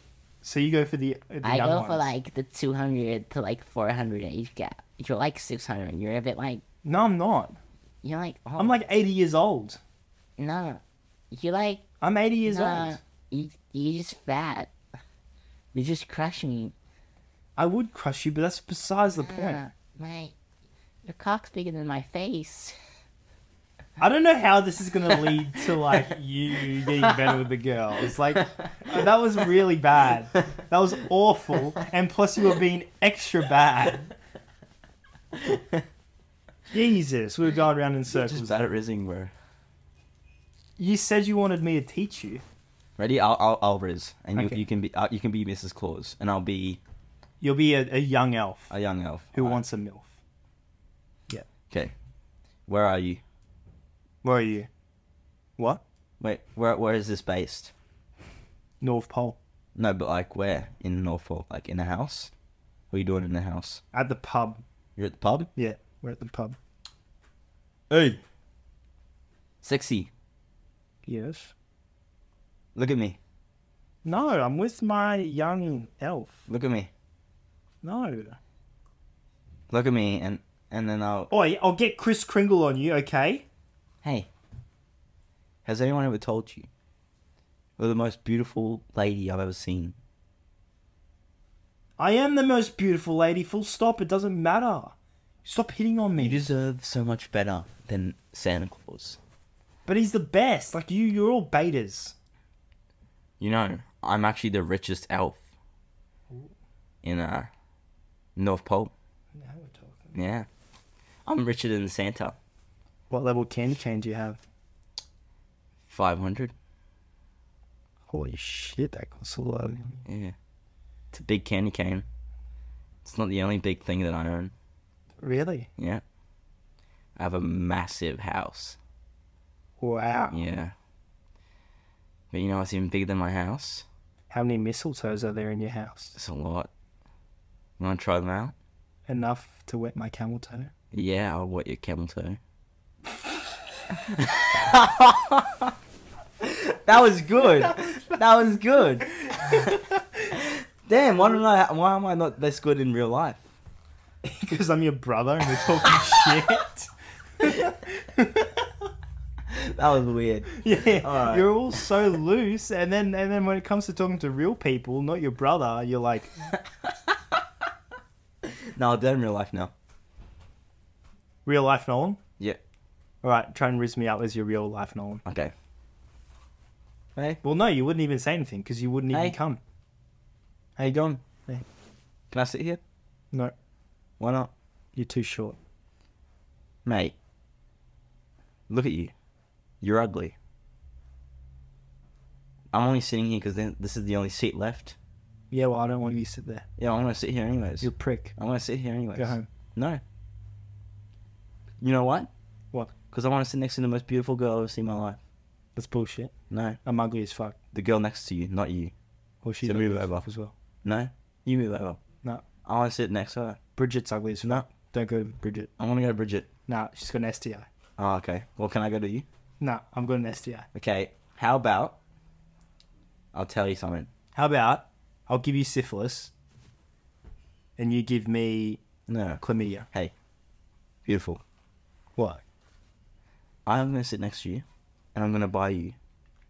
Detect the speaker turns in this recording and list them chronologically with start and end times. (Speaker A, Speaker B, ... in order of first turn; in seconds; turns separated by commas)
Speaker A: 0.4-2.1, Speaker B: 1.4-6.6, Speaker A: 6.8-7.6, Speaker B: 8.0-8.8, Speaker A: 8.6-9.8, Speaker B: 10.4-11.9, Speaker A: 12.0-13.0, Speaker B: 12.5-14.7, Speaker B: 15.7-16.7, Speaker A: 17.6-19.6, Speaker B: 19.2-20.3, Speaker B: 21.1-22.8, Speaker A: 24.0-34.1, Speaker C: 35.4-35.8, Speaker A: 36.7-38.5, Speaker C: 38.1-39.3, Speaker A: 40.8-42.4, Speaker C: 43.0-46.8, Speaker A: 44.4-44.6, Speaker A: 47.4-48.7, Speaker C: 48.7-49.6, Speaker A: 49.3-50.1, Speaker C: 52.7-53.2, Speaker A: 54.2-54.7, Speaker C: 56.2-57.7, Speaker A: 58.8-59.4, Speaker C: 59.8-62.3, Speaker C: 62.9-63.8, Speaker A: 63.9-64.6, Speaker C: 65.0-65.5, Speaker A: 65.5-66.6, Speaker C: 67.9-68.2, Speaker C: 69.6-70.1, Speaker A: 71.0-71.5, Speaker C: 72.8-73.2, Speaker A: 74.0-76.5, Speaker C: 76.5-76.9, Speaker A: 77.8-78.4, Speaker C: 79.7-81.3, Speaker A: 81.3-83.5, Speaker C: 84.0-84.3, Speaker C: 85.7-86.7, Speaker C: 87.8-90.0, Speaker A: 92.0-96.5, Speaker C: 96.2-99.2, Speaker A: 99.8-102.2, Speaker C: 103.4-105.4, Speaker C: 107.0-107.5, Speaker C: 108.3-108.9, Speaker A: 109.3-110.2, Speaker C: 110.1-110.5, Speaker C: 111.2-112.3, Speaker A: 113.1-114.4, Speaker C: 115.9-116.5, Speaker A: 118.1-120.0, Speaker C: 120.0-120.3, Speaker C: 121.1-122.0, Speaker C: 123.0-124.5, Speaker A: 125.2-125.7, Speaker C: 127.2-128.8, Speaker A: 129.8-130.4, Speaker C: 130.3-130.7, Speaker C: 132.3-133.8, Speaker A: 134.3-136.2, Speaker C: 136.2-136.7, Speaker C: 137.8-138.5, Speaker A: 139.1-140.7, Speaker C: 140.9-142.4, Speaker C: 144.0-145.7, Speaker C: 146.4-153.4, Speaker A: 154.2-158.7, Speaker C: 159.5-161.5, Speaker A: 160.5-166.4, Speaker C: 168.4-169.7, Speaker A: 171.5-172.2, Speaker A: 173.2-175.2, Speaker C: 175.2-175.5, Speaker C: 177.2-177.4, Speaker A: 177.4-179.6, Speaker C: 179.1-179.3, Speaker A: 180.8-181.6, Speaker C: 180.9-181.2, Speaker C: 182.3-182.8, Speaker C: 184.2-184.5, Speaker A: 184.9-185.6, Speaker C: 186.8-187.2, Speaker C: 188.7-189.1, Speaker C: 189.8-190.3, Speaker C: 192.7-195.0, Speaker A: 195.5-196.7, Speaker C: 196.8-200.0, Speaker A: 197.8-198.3, Speaker A: 199.2-199.5, Speaker C: 201.8-202.3, Speaker C: 203.1-205.2, Speaker A: 205.8-207.6, Speaker C: 206.5-206.8, Speaker C: 207.7-208.9, Speaker A: 209.4-210.5, Speaker C: 209.6-210.2, Speaker C: 210.8-212.0, Speaker C: 212.7-213.6, Speaker A: 213.8-215.7, Speaker C: 215.8-216.5, Speaker A: 216.7-217.7, Speaker C: 218.0-219.2, Speaker A: 219.6-220.7, Speaker C: 220.7-222.0, Speaker C: 223.3-224.1, Speaker A: 224.3-226.3, Speaker A: 227.8-228.8, Speaker C: 229.1-229.4, Speaker A: 229.4-229.9, Speaker C: 231.1-231.4, Speaker A: 232.2-232.4, Speaker C: 233.7-236.0